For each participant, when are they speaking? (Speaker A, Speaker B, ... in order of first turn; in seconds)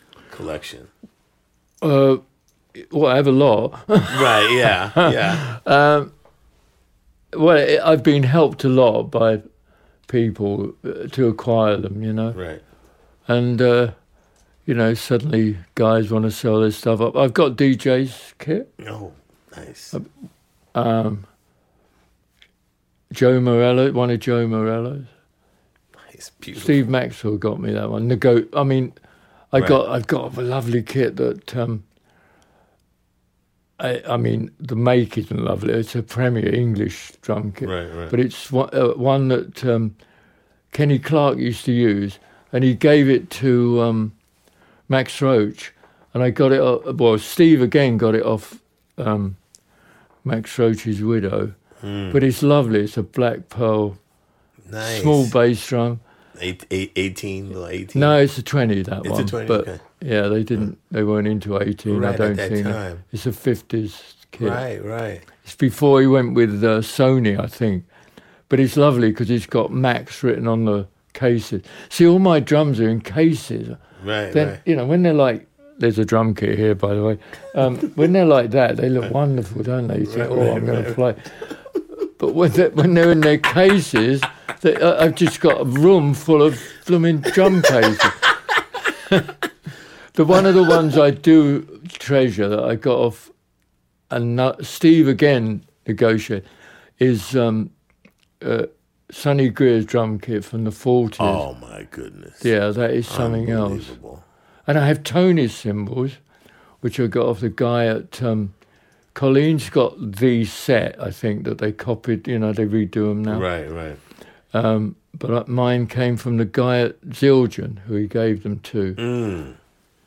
Speaker A: 0.3-0.9, 4.1-5.4, 12.3-12.6, 18.8-20.0, 26.0-26.8, 37.6-38.1, 51.8-52.2, 54.7-55.3, 56.4-58.1, 59.0-59.8, 61.9-63.0, 64.4-65.2, 74.0-74.6, 80.1-81.0, 101.2-102.5, 103.1-104.2, 113.3-114.0, 119.0-119.6
Speaker B: 1.8-2.2, 2.7-6.1, 7.3-9.4, 10.1-12.4, 13.3-13.9, 14.7-18.7, 20.7-21.2, 23.1-25.1, 26.5-28.9, 29.5-31.8, 33.8-39.9, 40.7-44.1, 44.9-49.4, 50.2-51.5, 52.1-54.0, 54.8-56.0, 57.9-64.6, 65.4-67.8, 68.5-73.8, 74.3-81.3, 82.2-88.2, 90.1-93.3, 94.1-96.4, 97.0-97.7, 98.4-101.5, 102.4-104.0, 104.7-106.2, 106.8-108.5, 109.1-113.5, 114.5-119.0